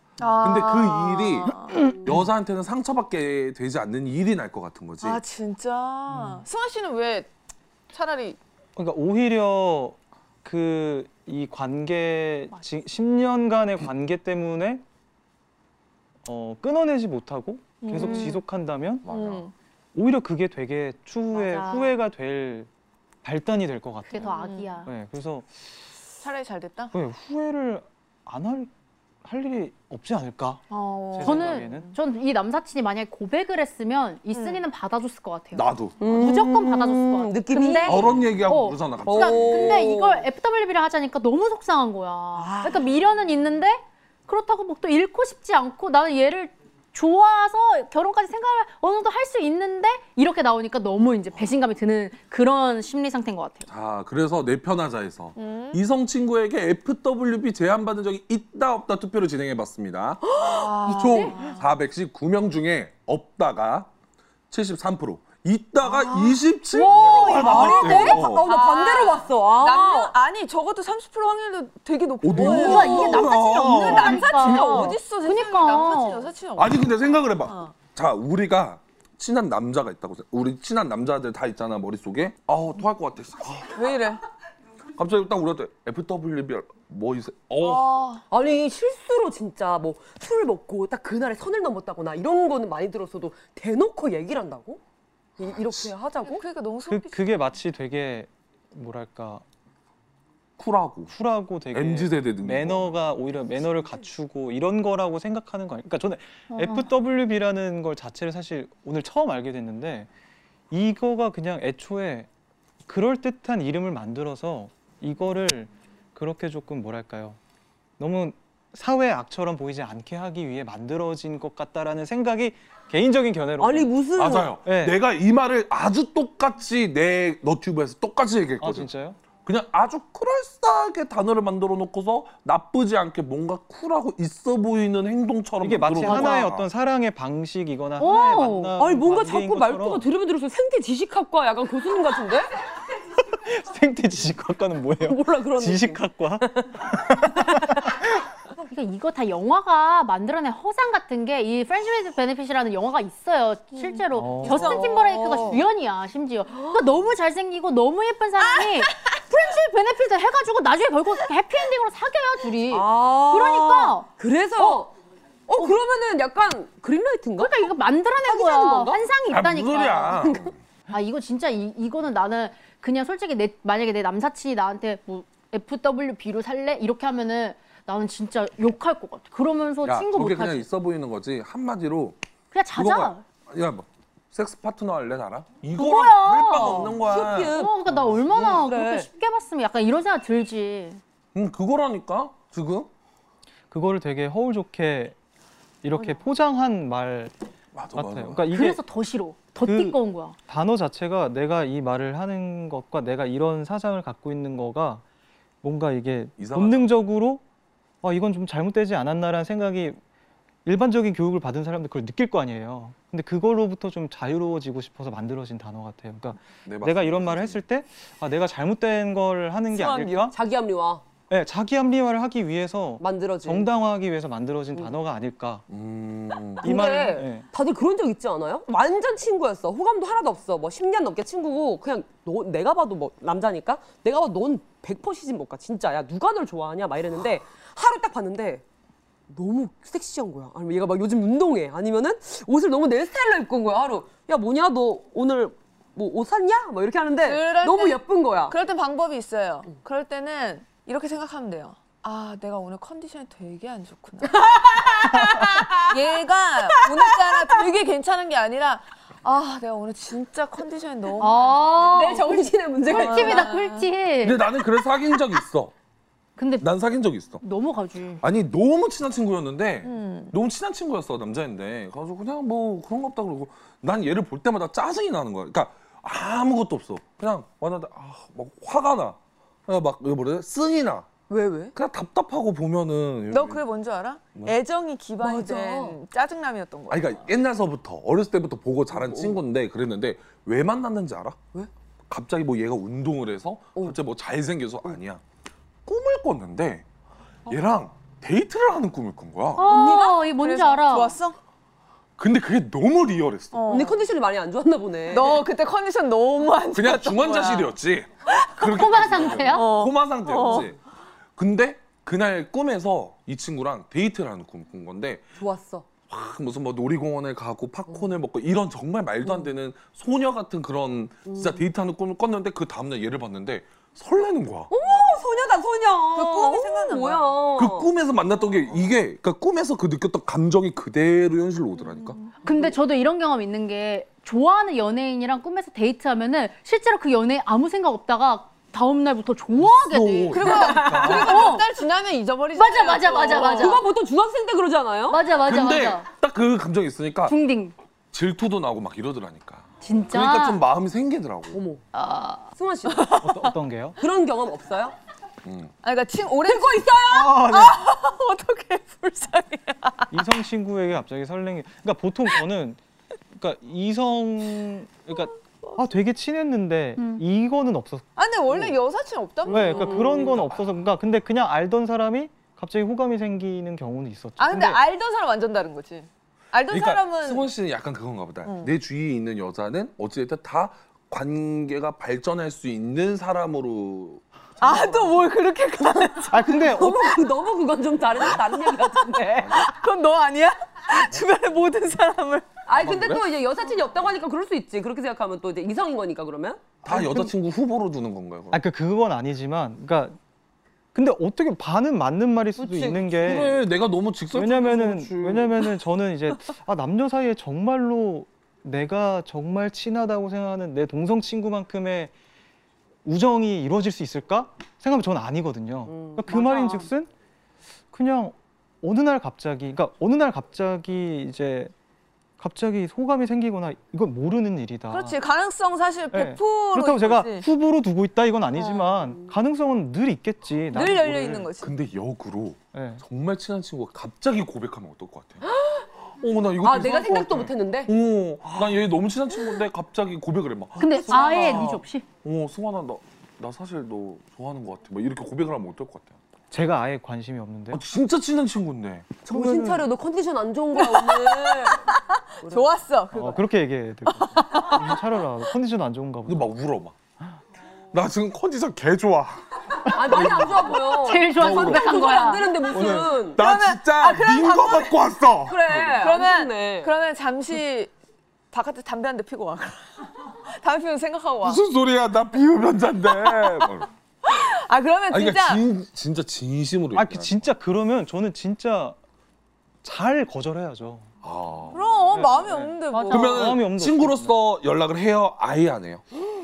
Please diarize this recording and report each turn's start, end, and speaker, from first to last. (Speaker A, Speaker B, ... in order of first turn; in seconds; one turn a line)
Speaker A: 0.2-1.9
Speaker B: 0.4-5.2
Speaker A: 5.0-7.3
Speaker C: 6.1-6.4
Speaker A: 7.9-8.4
Speaker C: 8.8-14.8
Speaker C: 16.2-19.1
Speaker A: 17.8-18.4
Speaker D: 17.9-18.4
Speaker B: 19.1-19.5
Speaker A: 19.1-19.5
Speaker C: 19.9-22.7
Speaker D: 21.3-21.9
Speaker C: 23.2-25.7
Speaker D: 24.1-24.9
Speaker A: 24.2-24.7
Speaker A: 26.2-26.9
Speaker C: 26.9-28.7
Speaker C: 29.2-31.9
Speaker A: 30.7-32.0
Speaker D: 31.2-53.7
Speaker A: 34.3-34.6
Speaker B: 35.5-36.3
Speaker E: 36.0-38.4
Speaker B: 37.8-39.9
Speaker E: 39.0-40.3
Speaker E: 42.4-43.0
Speaker B: 53.7-63.9
Speaker A: 55.4-55.8
Speaker A: 60.4-61.6
Speaker D: 60.9-61.5
Speaker B: 64.5-68.5
Speaker A: 65.8-66.4
Speaker D: 66.7-68.3
Speaker E: 67.2-70.1
Speaker A: 67.5-77.7
Speaker B: 72.2-74.4
Speaker D: 72.4-76.3
Speaker B: 76.6-83.8
Speaker A: 83.7-84.2
Speaker B: 85.0-87.9
Speaker A: 87.6-88.2
Speaker E: 88.3-94.8
Speaker E: 95.4-96.4
Speaker A: 96.2-97.5
Speaker C: 96.9-99.4
Speaker B: 100.6-101.1
Speaker C: 101.1-110.1
Speaker B: 101.7-103.0
Speaker D: 106.5-106.9
Speaker C: 110.7-112.3
Speaker C: 112.9-117.4
Speaker C: 118.0-124.0
Speaker E: 123.6-124.5
Speaker B: 124.2-128.9
Speaker C: 124.6-125.0
Speaker C: 128.6-129.2
Speaker B: 129.4-136.7
Speaker C: 135.6-140.1
Speaker E: 136.1-136.4
Speaker D: 138.0-138.7
Speaker E: 138.8-142.5
Speaker C: 143.3-148.0
Speaker E: 145.0-147.8
Speaker D: 148.6-164.8
Speaker C: 154.1-154.8
Speaker E: 154.4-155.6
Speaker A: 154.4-154.8
Speaker E: 156.5-156.9
Speaker E: 162.7-164.9
Speaker E: 165.5-167.6
Speaker D: 167.4-170.4
Speaker E: 168.2-169.0
Speaker B: 169.3-170.6
Speaker D: 170.9-180.7
Speaker B: 179.8-182.2
Speaker D: 182.5-183.2
Speaker B: 182.8-187.6
Speaker D: 185.8-191.0
Speaker E: 186.8-187.7
Speaker E: 188.3-189.1
Speaker B: 191.3-192.9
Speaker C: 193.7-195.2
Speaker C: 195.8-197.3
Speaker B: 197.8-198.5
Speaker C: 197.9-198.8
Speaker D: 198.5-200.4
Speaker C: 199.6-205.0
Speaker C: 205.6-207.4
Speaker B: 206.4-206.9
Speaker C: 208.0-210.0
Speaker C: 210.7-220.3
Speaker B: 216.7-217.6
Speaker A: 219.7-220.3
Speaker E: 220.3-221.0
Speaker C: 221.3-225.6
Speaker E: 223.0-223.7
Speaker B: 225.7-226.8
Speaker E: 226.6-238.6
Speaker C: 226.6-227.5
Speaker E: 239.3-248.6
Speaker A: 247.2-263.9
Speaker E: 254.3-255.9
Speaker E: 256.8-257.5
Speaker D: 261.2-264.5
Speaker E: 261.8-263.5
Speaker B: 264.2-265.7
Speaker D: 266.4-266.7
Speaker B: 266.6-267.4
Speaker D: 267.4-268.2
Speaker B: 268.2-281.1
Speaker A: 269.8-270.4
Speaker E: 281.3-281.7
Speaker B: 281.8-283.6
Speaker A: 283.3-287.3
Speaker E: 285.2-286.0
Speaker B: 286.9-291.4
Speaker E: 288.9-289.4
Speaker B: 292.1-295.2
Speaker B: 295.9-296.9
Speaker B: 297.5-299.6
Speaker D: 299.6-301.2
Speaker A: 299.7-301.4
Speaker E: 299.7-300.1
Speaker B: 302.2-303.6
Speaker A: 303.5-304.0
Speaker E: 303.7-305.4
Speaker A: 305.1-307.7
Speaker B: 306.8-310.8
Speaker A: 308.3-308.6
Speaker D: 308.6-309.7
Speaker A: 309.5-310.7
Speaker B: 311.4-315.3
Speaker E: 315.4-315.9
Speaker B: 316.0-324.7
Speaker E: 319.2-319.5
Speaker E: 321.3-321.6
Speaker E: 324.7-327.9
Speaker A: 326.1-327.3
Speaker B: 327.6-332.3
Speaker D: 332.4-341.7
Speaker B: 339.6-341.4
Speaker A: 340.3-343.8
Speaker E: 340.5-341.3
Speaker D: 342.6-343.8
Speaker E: 343.3-345.2
Speaker D: 345.1-346.1
Speaker B: 345.4-347.4
Speaker D: 347.3-347.7
Speaker B: 348.1-351.6
Speaker D: 349.8-350.6
Speaker E: 351.5-351.8
Speaker D: 352.0-352.3
Speaker E: 352.6-353.3
Speaker A: 352.9-353.5
Speaker C: 353.2-354.0
Speaker E: 354.0-355.0
Speaker B: 355.4-355.7
Speaker A: 355.8-360.1
Speaker E: 356.5-357.4
Speaker C: 357.1-357.8
Speaker C: 360.1-362.8
Speaker C: 363.3-368.8
Speaker D: 367.0-367.2
Speaker A: 368.2-370.3
Speaker E: 369.5-370.4
Speaker C: 369.5-374.8
Speaker B: 370.4-370.8
Speaker A: 374.4-377.5
Speaker B: 376.7-385.1
Speaker A: 378.4-378.7
Speaker A: 384.6-386.8
Speaker C: 386.3-387.1
Speaker E: 386.6-389.6
Speaker A: 389.4-392.5
Speaker E: 392.7-396.7
Speaker B: 392.7-393.3
Speaker C: 396.9-397.3
Speaker B: 396.9-398.6
Speaker C: 398.5-400.2
Speaker C: 400.9-403.6
Speaker E: 402.6-403.3
Speaker B: 403.2-405.6
Speaker C: 404.3-412.1
Speaker C: 413.1-417.1
Speaker E: 415.9-416.5
Speaker C: 417.9-421.7
Speaker C: 422.4-425.2
Speaker A: 424.9-427.5
Speaker C: 426.1-431.5
Speaker A: 428.6-428.8
Speaker A: 430.7-431.7
Speaker B: 431.6-435.4
Speaker C: 432.7-433.0
Speaker E: 435.4-435.9
Speaker B: 436.2-446.2
Speaker E: 436.6-437.9
Speaker D: 440.8-442.1
Speaker C: 446.5-447.8
Speaker B: 447.7-449.1
Speaker E: 449.2-451.9
Speaker C: 449.3-449.9
Speaker A: 450.8-453.4
Speaker C: 453.1-456.5
Speaker A: 454.1-455.0
Speaker B: 456.3-456.9
Speaker B: 457.9-462.2
Speaker E: 459.9-463.4
Speaker D: 461.0-462.6
Speaker B: 462.7-466.1
Speaker C: 462.7-463.1
Speaker A: 463.4-465.0
Speaker E: 465.5-466.9
Speaker A: 466.0-467.9
Speaker A: 468.5-471.6
Speaker B: 471.4-473.9
Speaker A: 474.2-475.6
Speaker B: 475.1-477.4
Speaker C: 476.9-479.0
Speaker C: 479.8-481.1
Speaker B: 481.2-481.9
Speaker A: 481.7-483.5
Speaker C: 482.1-484.4
Speaker D: 482.9-483.4
Speaker B: 483.1-486.0